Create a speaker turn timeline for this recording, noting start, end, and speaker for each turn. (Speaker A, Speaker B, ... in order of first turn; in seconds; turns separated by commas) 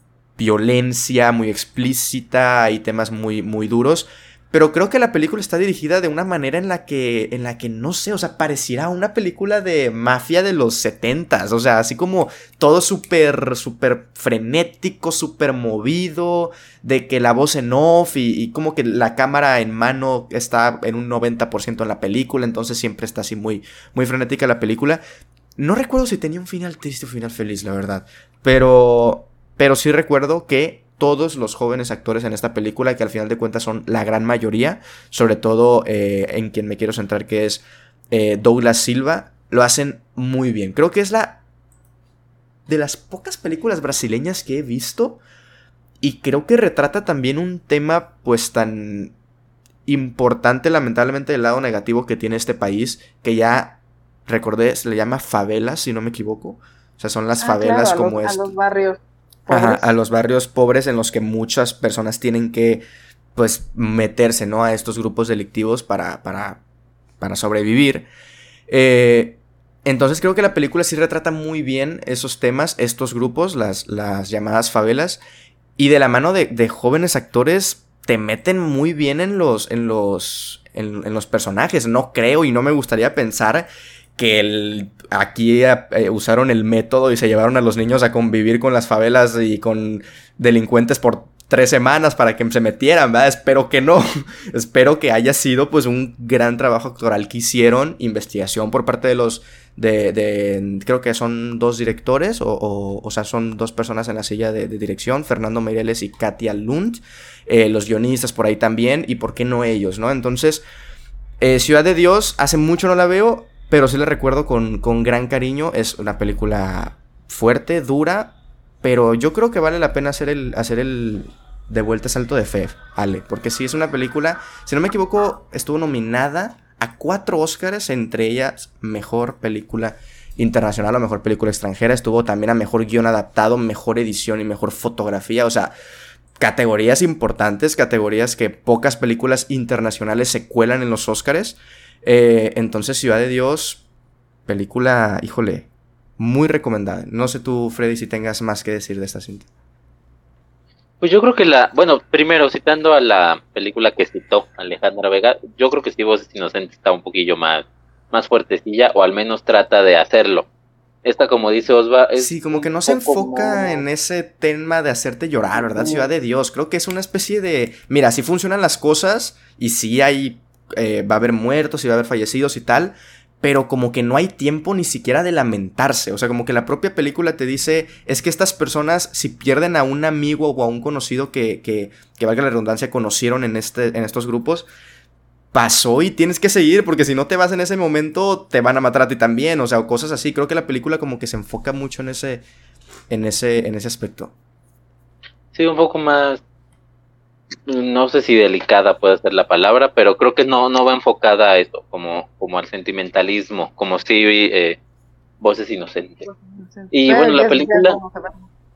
Speaker A: 0.4-25.0, Speaker A: 25.6-41.4, Speaker A: 42.7-45.2, Speaker A: 46.0-49.1, Speaker A: 49.9-58.5, Speaker B: 57.4-59.9, Speaker A: 59.5-62.8, Speaker A: 63.4-66.6, Speaker A: 67.2-68.1, Speaker A: 68.7-75.2, Speaker A: 75.8-110.6, Speaker A: 111.4-135.7, Speaker A: 136.4-143.8, Speaker A: 144.5-149.5, Speaker C: 151.0-160.4, Speaker C: 161.0-163.8, Speaker A: 162.2-184.7, Speaker C: 165.6-166.1, Speaker A: 185.5-192.4, Speaker A: 193.1-194.3, Speaker C: 195.5-196.4, Speaker C: 197.7-204.8, Speaker C: 205.4-206.3, Speaker B: 206.2-208.4, Speaker C: 206.9-208.0